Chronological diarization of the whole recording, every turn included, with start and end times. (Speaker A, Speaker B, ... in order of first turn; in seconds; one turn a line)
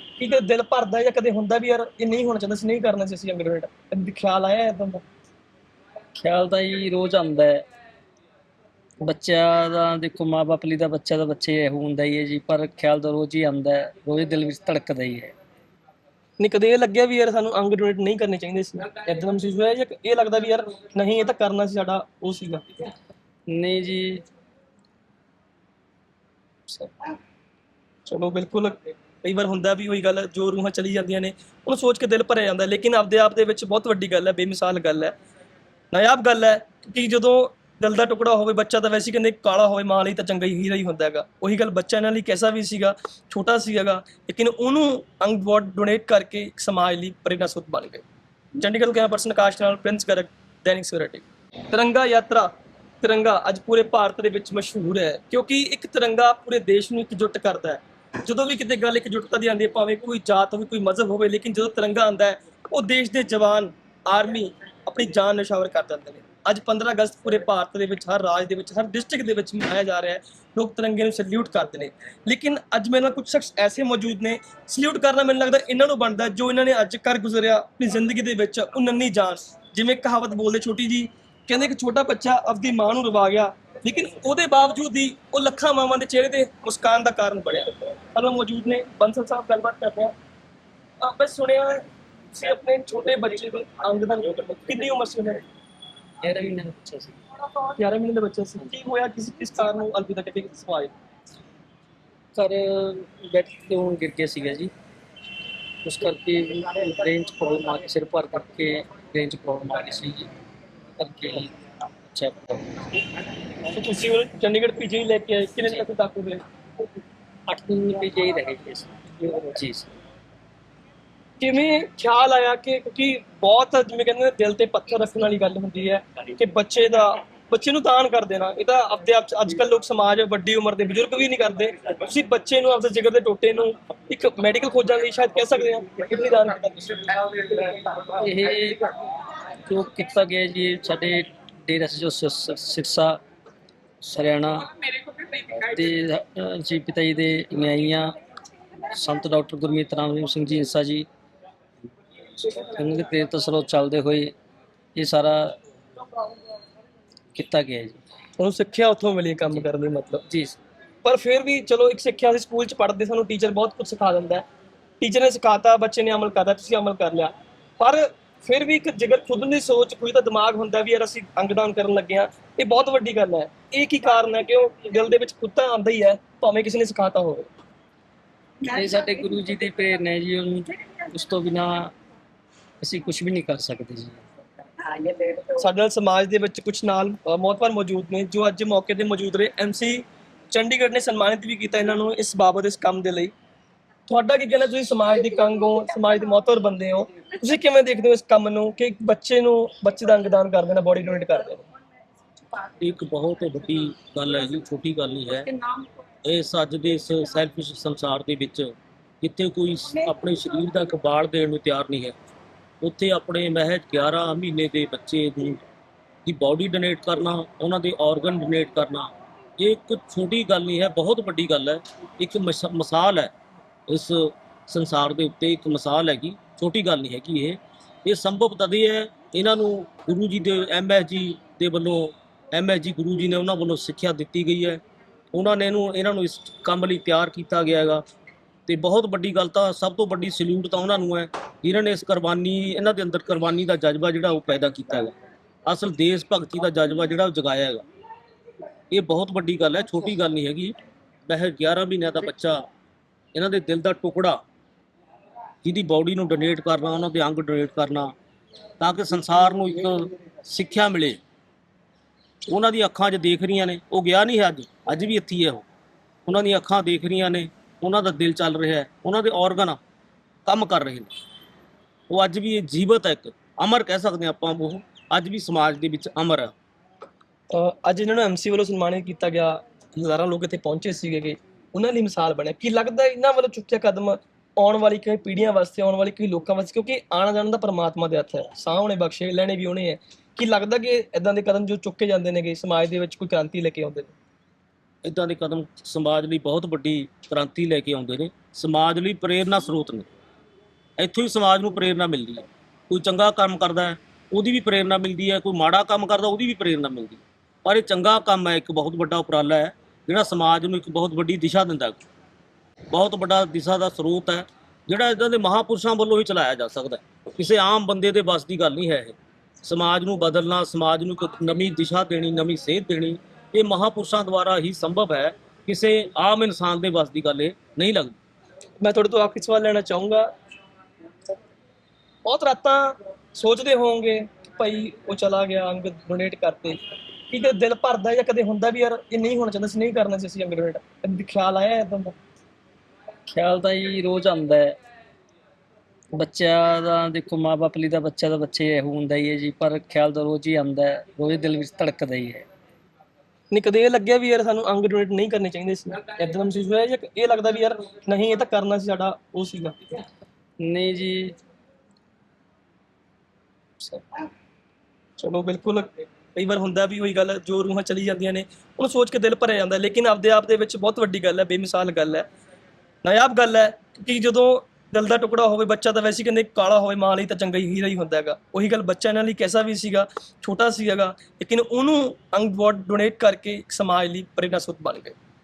Speaker A: 0.2-5.0
Speaker B: 6.2-7.6
Speaker B: 9.0-15.3
Speaker A: 16.4-22.6
Speaker B: 23.5-24.2
Speaker A: 26.7-27.1
Speaker A: 28.1-35.2
Speaker A: 35.9-48.0
Speaker A: 48.6-52.5
Speaker A: 53.0-90.1
Speaker A: 91.0-95.4
Speaker B: 96.2-97.2
Speaker A: 97.6-100.9
Speaker B: 102.3-104.7
Speaker B: 105.8-110.3
Speaker B: 111.0-111.5
Speaker B: 112.1-112.7
Speaker A: 113.7-116.4
Speaker B: 117.5-119.9
Speaker A: 121.4-137.9
Speaker B: 138.2-138.9
Speaker B: 139.7-143.2
Speaker B: 144.0-144.7
Speaker B: 145.6-148.1
Speaker B: 148.9-151.1
Speaker B: 152.4-154.3
Speaker B: 154.9-155.6
Speaker B: 157.3-158.0
Speaker A: 158.4-160.2
Speaker B: 160.3-160.6
Speaker A: 161.0-164.4
Speaker A: 165.0-177.5
Speaker B: 178.6-181.9
Speaker B: 182.8-184.2
Speaker A: 185.5-193.3
Speaker A: 194.1-201.7
Speaker C: 202.8-205.6
Speaker C: 206.2-212.2
Speaker C: 212.8-215.6
Speaker C: 216.2-223.3
Speaker C: 223.9-234.8
Speaker C: 235.3-238.0
Speaker C: 238.7-245.1
Speaker C: 245.7-247.8
Speaker C: 248.9-250.8
Speaker C: 251.3-252.6
Speaker C: 253.3-254.4
Speaker C: 255.6-258.1
Speaker C: 258.8-261.2
Speaker C: 262.5-265.6
Speaker C: 266.3-269.8
Speaker C: 270.5-271.1
Speaker C: 272.1-276.5
Speaker A: 277.5-294.1
Speaker C: 295.0-300.1
Speaker C: 301.0-312.0
Speaker C: 312.9-328.2
Speaker A: 328.8-330.3
Speaker A: 332.2-336.8
Speaker A: 337.3-342.1
Speaker B: 343.3-344.8
Speaker B: 346.1-352.5
Speaker A: 353.5-359.8
Speaker B: 360.6-361.4
Speaker A: 363.8-364.2
Speaker A: 365.2-372.3
Speaker A: 373.0-385.2